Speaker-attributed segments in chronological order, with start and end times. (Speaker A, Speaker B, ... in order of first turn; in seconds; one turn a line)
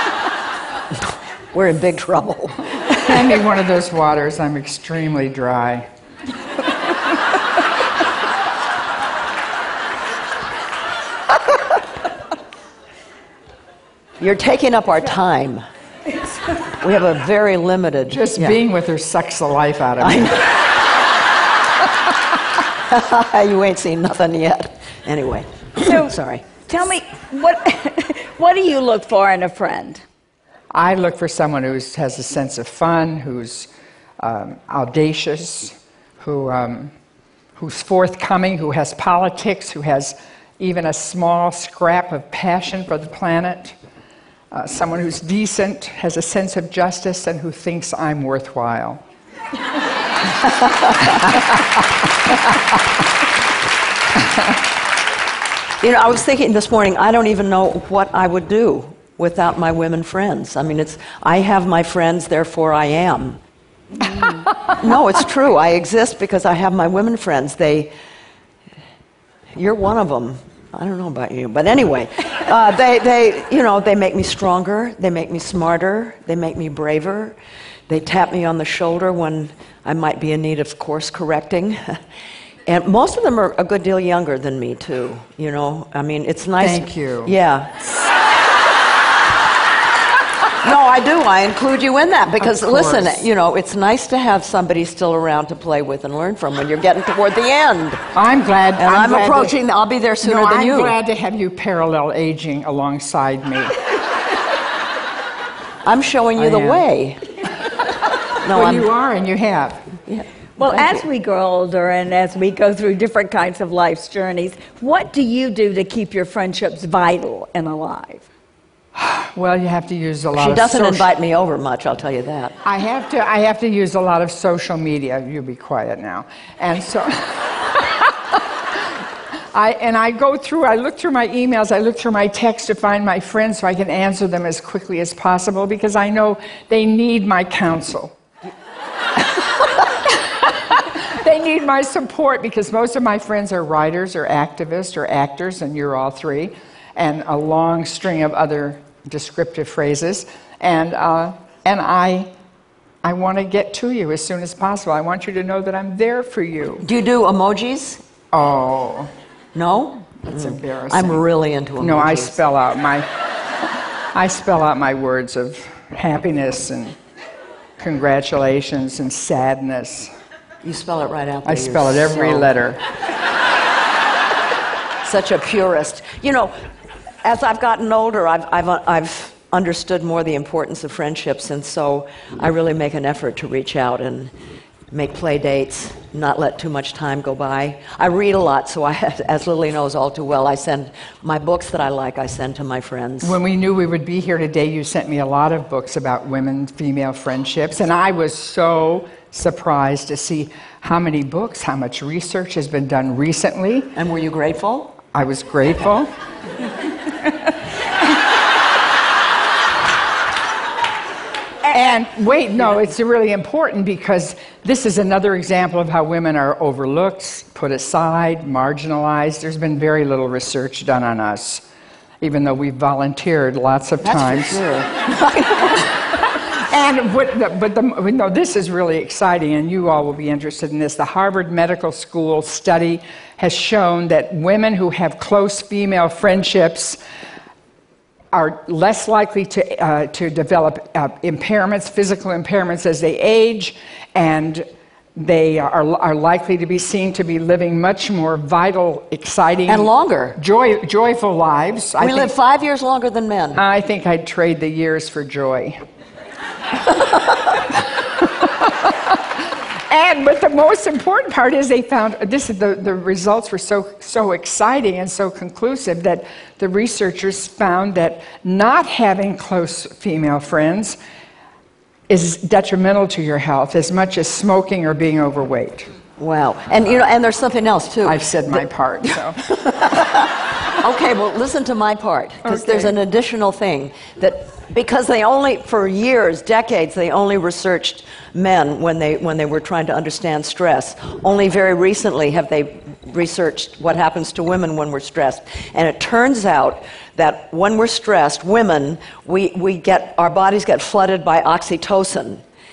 Speaker A: 1.5-2.8
Speaker B: 2.9-5.8
Speaker A: 14.2-15.6
Speaker A: 16.8-18.6
Speaker B: 18.1-20.4
Speaker A: 20.0-20.6
Speaker A: 22.9-26.5
Speaker C: 25.8-30.0
Speaker B: 30.7-33.7
Speaker B: 34.2-36.9
Speaker B: 37.5-43.8
Speaker B: 44.5-49.0
Speaker A: 50.4-51.3
Speaker A: 55.8-63.4
Speaker A: 64.7-67.9
Speaker A: 69.5-77.3
Speaker A: 77.9-82.0
Speaker A: 82.7-87.8
Speaker B: 86.6-87.3
Speaker A: 90.6-98.0
Speaker B: 92.4-93.2
Speaker B: 98.1-99.5
Speaker A: 98.8-101.0
Speaker B: 100.2-103.8
Speaker A: 105.8-107.2
Speaker B: 106.4-106.8
Speaker A: 108.4-108.9
Speaker B: 108.5-109.8
Speaker A: 110.1-111.0
Speaker C: 110.6-118.3
Speaker B: 118.9-121.1
Speaker A: 120.3-122.5
Speaker B: 122.6-128.4
Speaker B: 129.5-138.2
Speaker B: 140.7-152.3
Speaker B: 153.0-156.8
Speaker A: 156.8-158.0
Speaker B: 158.3-159.1
Speaker A: 159.5-162.4
Speaker B: 160.3-161.2
Speaker B: 161.8-163.1
Speaker B: 164.1-167.0
Speaker B: 167.8-170.1
Speaker A: 170.6-172.5
Speaker B: 171.4-172.8
Speaker A: 175.0-176.5
Speaker A: 177.2-184.3
Speaker A: 184.9-193.4
Speaker B: 193.2-203.9
Speaker A: 203.9-204.9
Speaker B: 205.1-206.1
Speaker B: 211.7-221.6
Speaker B: 222.2-224.6
Speaker A: 224.0-225.9
Speaker B: 226.5-237.0
Speaker B: 238.3-244.6
Speaker B: 245.2-252.3
Speaker A: 249.7-250.4
Speaker A: 252.0-253.6
Speaker B: 253.6-255.8
Speaker B: 258.2-259.1
Speaker B: 259.9-271.0
Speaker B: 272.1-275.9
Speaker A: 276.2-302.4
Speaker B: 278.1-279.4
Speaker B: 282.4-282.9